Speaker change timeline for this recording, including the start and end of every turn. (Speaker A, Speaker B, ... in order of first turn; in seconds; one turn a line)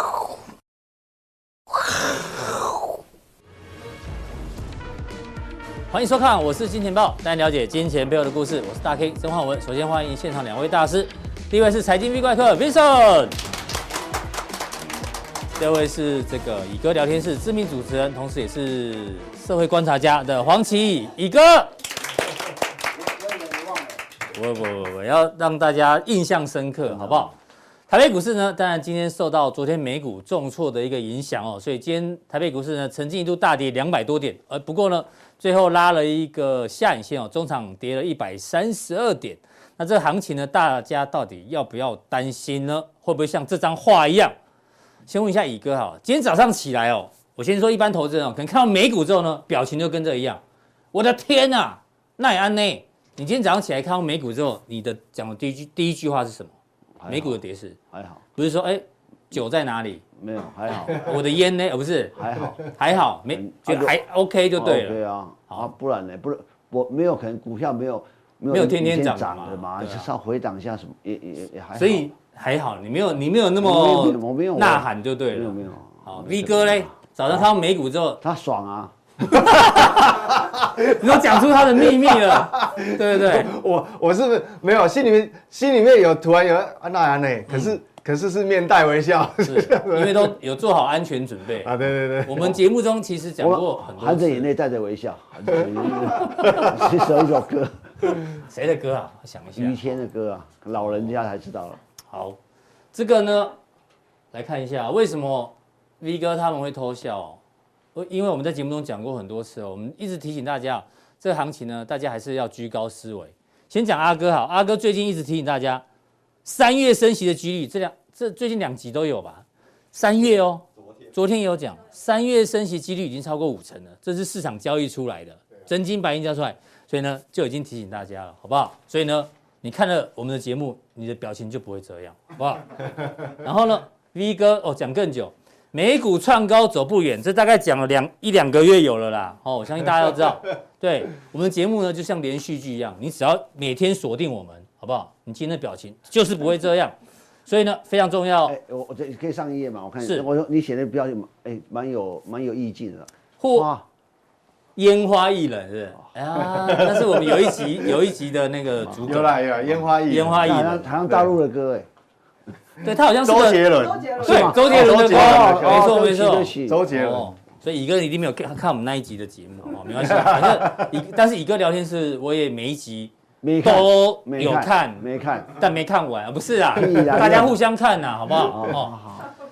Speaker A: 5.9-13.3
Speaker A: 15.6-21.7
Speaker A: 24.3-27.3
Speaker A: 27.9-44.3
Speaker A: 45.1-50.4
Speaker A: 50.9-56.5
Speaker B: 57.0-57.4
Speaker A: 57.1-57.8
Speaker B: 57.9-58.2
Speaker A: 58.4-60.0
Speaker B: 60.2-61.2
Speaker A: 60.9-65.7
Speaker B: 62.1-63.9
Speaker B: 64.6-72.0
Speaker A: 68.5-70.1
Speaker A: 71.7-78.2
Speaker B: 73.6-77.5
Speaker B: 78.2-78.9
Speaker A: 79.3-83.5
Speaker C: 79.3-90.3
Speaker A: 87.5-87.8
Speaker A: 89.4-94.5
Speaker C: 91.6-92.6
Speaker B: 93.4-97.8
Speaker C: 96.2-96.8
Speaker A: 98.0-99.8
Speaker B: 99.6-101.8
Speaker A: 100.8-101.1
Speaker A: 102.0-102.4
Speaker A: 102.9-103.5
Speaker A: 104.3-107.4
Speaker A: 107.9-115.8
Speaker A: 116.4-146.9
Speaker A: 147.4-148.6
Speaker B: 148.5-153.8
Speaker A: 153.4-153.7
Speaker A: 154.8-159.4
Speaker C: 159.1-161.3
Speaker A: 160.0-161.0
Speaker B: 160.4-161.9
Speaker A: 162.8-178.9
Speaker C: 163.2-165.9
Speaker B: 164.2-166.8
Speaker C: 166.6-167.3
Speaker B: 173.4-175.6
Speaker B: 176.7-177.6
Speaker B: 178.4-179.3